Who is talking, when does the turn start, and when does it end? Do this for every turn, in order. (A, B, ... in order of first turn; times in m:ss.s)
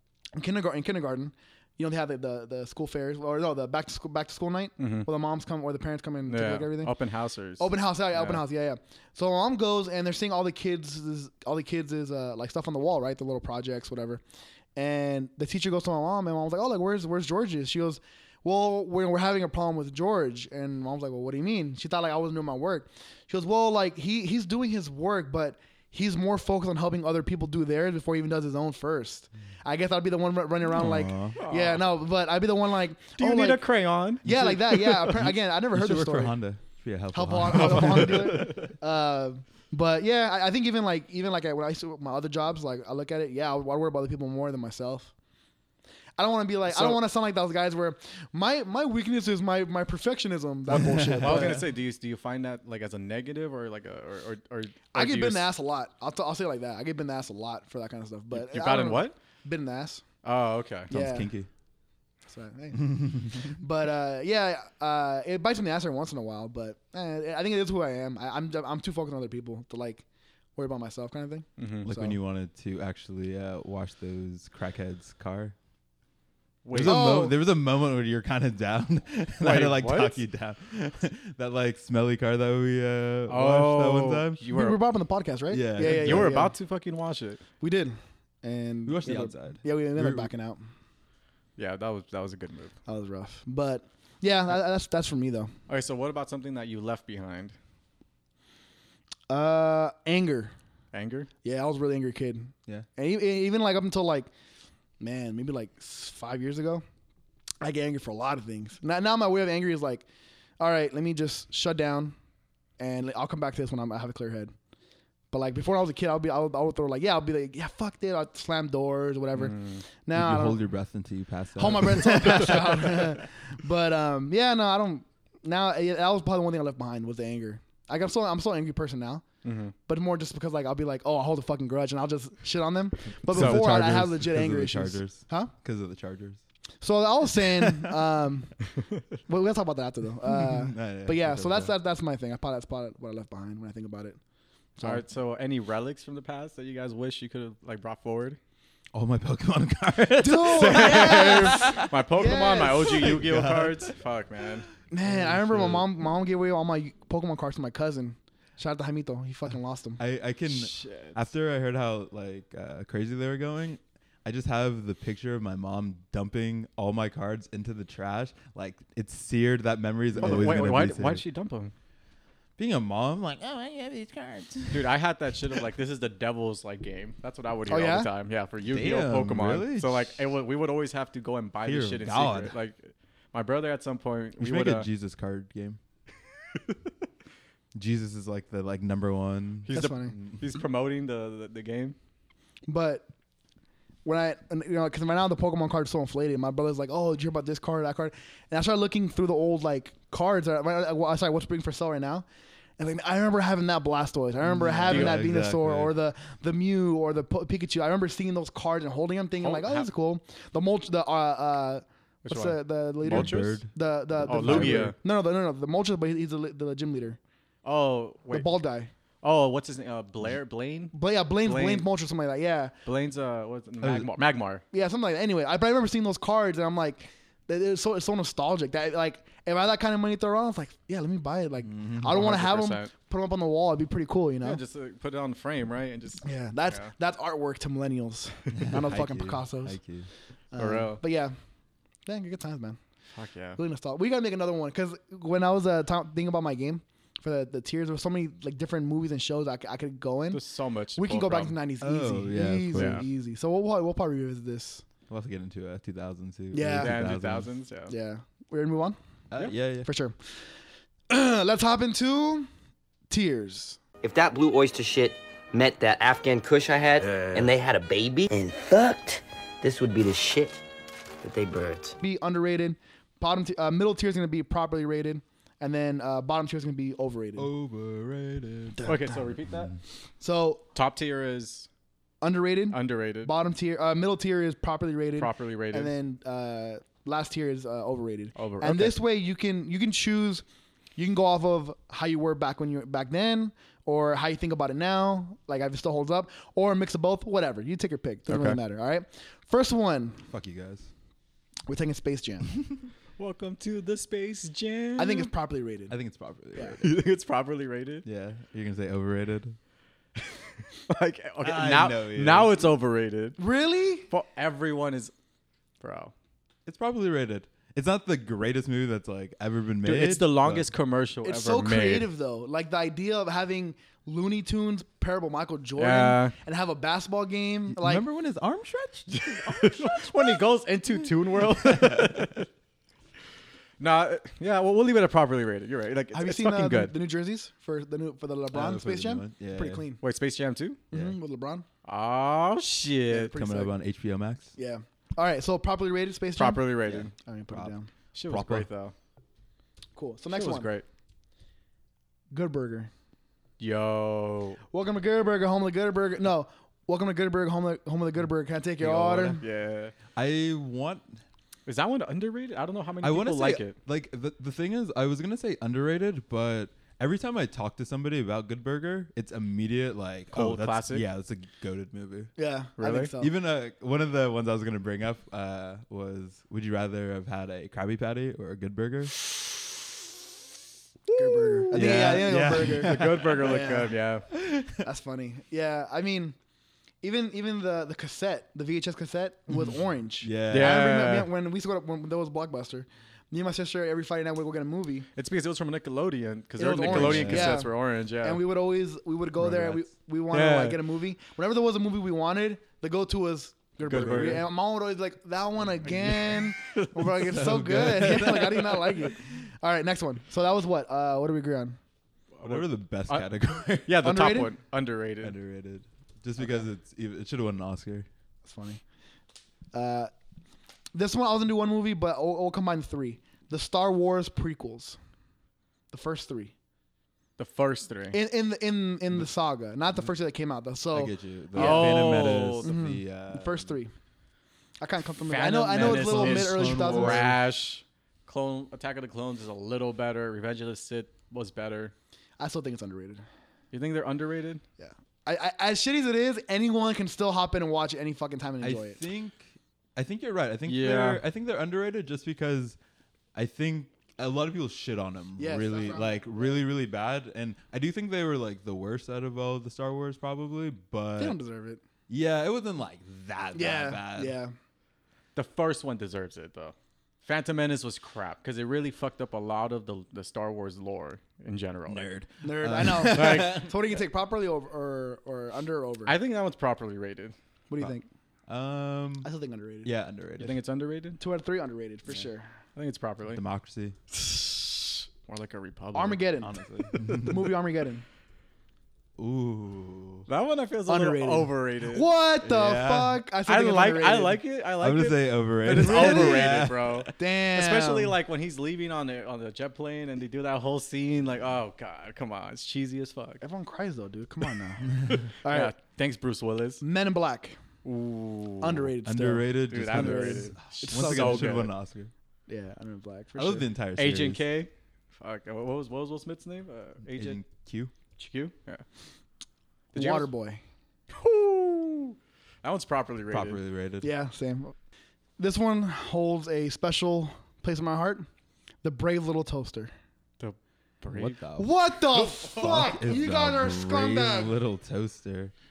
0:00.4-0:06.9 A
0:04.8-0:05.1 B
0:06.3-0:08.4 B
0:07.6-0:14.2 A
0:14.8-0:33.6 A
0:30.7-0:31.4 C
0:31.4-0:31.8 B
0:33.2-0:35.0 B
0:34.2-0:36.4 A
0:34.2-0:38.7 C
0:37.1-0:45.1 A
0:37.8-0:38.1 B
0:46.2-0:51.7 A
0:46.7-0:47.0 B
0:50.7-0:51.6 C
0:51.2-0:55.5 B
0:54.9-1:00.0 A
0:58.3-0:59.2 B
1:00.2-1:00.9 B
1:00.9-1:01.3 A
1:00.9-1:01.5 C
1:02.3-1:10.0 A
1:02.8-1:03.5 C
1:10.6-1:12.2 A
1:11.6-1:11.9 B
1:11.8-1:15.6 C
1:16.6-1:17.2 B
1:16.7-1:24.4 C
1:16.8-1:17.4 A
1:19.4-1:20.2 B
1:23.3-1:24.8 B
1:24.5-1:26.5 A
1:25.5-1:26.4 C
1:25.8-1:27.4 B
1:27.6-1:30.6 A
1:28.9-1:30.3 C
1:31.6-1:32.7 B
1:32.9-1:35.5 A
1:35.7-1:37.6 B
1:39.3-1:40.5 A
1:40.9-1:41.3 B
1:41.4-1:44.3 A
1:45.0-1:46.8 A
1:47.6-1:50.0 A
1:50.6-1:52.2 A
1:52.8-1:54.5 A
1:55.3-2:00.6 A
1:59.4-1:59.8 B
2:00.1-2:03.1 C
2:01.6-2:09.3 A
2:09.4-2:09.7 B
2:09.9-2:15.5 A
2:13.2-2:16.4 C
2:13.3-2:13.6 B
2:16.8-2:18.6 A
2:17.5-2:17.9 C
2:19.3-2:24.2 A
2:20.3-2:21.7 C
2:24.8-2:25.0 A
2:24.8-2:28.4 B
2:28.9-2:31.8 C
2:30.2-2:33.1 A
2:30.4-2:34.7 B
2:32.8-2:33.9 C
2:34.9-2:40.0 A
2:35.1-2:35.8 C
2:35.2-2:35.8 B
2:40.0-2:51.2 C
2:40.5-2:41.2 B
2:50.2-2:51.7 B
2:50.3-2:50.6 A
2:52.6-2:54.9 C
2:54.7-3:04.9 B
2:57.7-2:58.1 A
2:58.6-3:00.2 C
3:01.6-3:02.6 C
3:04.4-3:05.8 C
3:07.8-3:10.4 C
3:09.7-3:12.0 B
3:09.7-3:10.1 A
3:12.7-3:13.1 A
3:14.0-3:22.2 A
3:22.8-3:37.2 A
3:24.5-3:26.0 C
3:24.9-3:25.2 B
3:29.4-3:29.9 B
3:32.2-3:33.6 B
3:33.0-3:34.9 C
3:34.3-3:35.0 B
3:37.6-3:38.5 B
3:38.3-3:38.9 A
3:39.2-3:41.9 B
3:40.9-3:42.7 A
3:42.9-3:44.6 B
3:43.8-3:44.1 C
3:44.7-3:54.6 A
3:51.7-3:52.2 C
3:52.1-3:52.9 B
3:54.4-3:56.9 B
3:56.2-3:59.8 A
3:58.5-4:00.1 C
4:00.5-4:01.3 A
4:00.6-4:01.0 B
4:02.1-4:02.8 A
4:03.2-4:03.6 B
4:03.6-4:10.4 A
4:10.3-4:11.6 B
4:11.0-4:14.8 A
4:11.8-4:13.1 C
4:12.7-4:13.1 B
4:15.1-4:17.5 C
4:16.5-4:17.1 A
4:16.8-4:18.0 B
4:17.9-4:19.0 A
4:19.3-4:19.9 C
4:19.8-4:20.2 A
4:21.1-4:22.5 A
4:23.1-4:23.8 A
4:24.0-4:30.6 D
4:31.2-4:32.0 D
4:32.0-4:37.5 A
4:37.4-4:38.9 C
4:38.8-4:39.7 B
4:40.2-4:40.6 A
4:40.8-4:41.7 B
4:42.2-4:50.4 A
4:42.7-4:43.3 B
4:45.2-4:45.9 B
4:48.4-4:49.0 B
4:51.0-5:00.2 A
4:58.3-4:58.6 B
5:00.3-5:00.9 C
5:01.7-5:02.5 A
5:03.2-5:05.3 B
5:05.0-5:06.0 A
5:05.9-5:07.0 C
5:06.8-5:08.0 B
5:08.0-5:09.6 C
5:10.9-5:13.4 B
5:11.4-5:12.7 C
5:13.4-5:14.1 A
5:14.1-5:15.1 B
5:15.8-5:16.1 B
5:16.7-5:20.7 C
5:19.8-5:22.1 B
5:21.2-5:28.0 A
5:25.8-5:26.4 B
5:27.7-5:30.3 C
5:29.1-5:32.5 B
5:31.4-5:32.4 C
5:33.8-5:36.9 B
5:36.1-5:40.0 A
5:38.5-5:39.8 C
5:40.0-5:40.8 B
5:40.9-5:41.7 A
5:40.9-5:41.2 C
5:41.8-5:43.3 B
5:43.1-5:43.7 A
5:43.3-5:44.5 C
5:44.6-5:47.9 A
5:46.4-5:47.1 B
5:46.9-5:47.7 C
5:48.1-5:48.9 B
5:48.3-5:48.7 C
5:50.0-5:50.7 A
5:50.3-5:50.9 B
5:52.3-5:52.9 A
5:53.6-5:54.6 B
5:54.7-5:59.4 A
5:58.8-5:59.9 B
5:58.9-5:59.4 C
6:00.2-6:01.2 C
6:01.7-6:03.8 B
6:03.0-6:12.3 C
6:10.3-6:11.0 B
6:12.4-6:13.3 A
6:12.8-6:13.1 B
6:13.2-6:19.2 C
6:21.1-6:24.0 A
6:21.7-6:24.3 B
6:21.7-6:23.7 C
6:24.3-6:24.9 C
6:24.8-6:26.4 A
6:27.0-6:35.1 A
6:29.5-6:31.0 C
6:30.5-6:31.3 B
6:35.2-6:38.4 B
6:36.6-6:51.8 A
6:36.8-6:37.6 C
6:39.4-6:39.9 C
6:40.3-6:40.8 B
6:43.8-6:44.5 B
6:45.9-6:47.0 B
6:47.1-6:49.2 C
6:52.3-6:53.3 B
6:52.4-6:54.0 C
6:53.8-6:55.4 B
6:54.0-6:54.5 A
6:55.2-6:58.1 C
6:56.4-6:56.7 A
6:58.4-6:58.8 A
6:59.7-7:00.1 A
7:00.9-7:05.0 A
7:05.9-7:06.5 A
7:07.4-7:08.2 B
7:08.1-7:13.9 A
7:10.9-7:13.8 C
7:11.6-7:12.7 B
7:14.8-7:17.3 A
7:15.3-7:21.9 B
7:15.8-7:17.4 C
7:22.4-7:23.2 A
7:23.7-7:24.6 B
7:24.8-7:29.0 A
7:28.6-7:32.8 C
7:30.7-7:31.2 B
7:33.4-7:41.4 C
7:35.4-7:36.6 A
7:41.2-7:41.8 A
7:42.1-7:44.4 C
7:43.5-7:44.5 A
7:45.4-7:52.1 B
7:51.9-7:53.7 C
7:52.4-7:56.2 A
7:53.0-7:53.6 B
7:56.1-7:57.4 B
7:57.7-7:58.0 A
7:58.5-7:59.3 C
7:59.2-7:59.9 A
7:59.8-8:00.6 C
8:00.4-8:01.2 B
8:01.2-8:02.5 A
8:02.8-8:03.4 B
8:03.3-8:04.0 C
8:05.3-8:06.2 B
8:05.9-8:08.0 A
8:06.4-8:07.5 C
8:06.9-8:07.2 B
8:09.2-8:10.3 C
8:10.3-8:12.1 B
8:10.9-8:14.4 A
8:12.4-8:13.2 C
8:13.5-8:23.4 B
8:14.8-8:17.1 C
8:15.7-8:18.2 A
8:23.4-8:25.7 A
8:25.1-8:26.8 B
8:26.8-8:27.6 A
8:27.8-8:28.9 B
8:28.6-8:31.7 A
8:29.0-8:32.1 C
8:29.7-8:31.7 B
8:32.5-8:33.7 A
8:33.4-8:34.4 C
8:34.0-8:37.4 B
8:37.1-8:37.9 C
8:38.2-8:38.8 B
8:39.9-8:40.3 B
8:39.9-8:40.6 A
8:41.1-8:43.6 B
8:43.3-8:44.1 C
8:44.0-8:44.8 A
8:45.4-8:48.3 A
8:48.8-8:49.9 A
8:50.4-8:51.4 B
8:51.1-8:51.7 C
8:51.6-8:54.6 A
8:52.1-8:53.0 B
8:52.5-8:55.5 C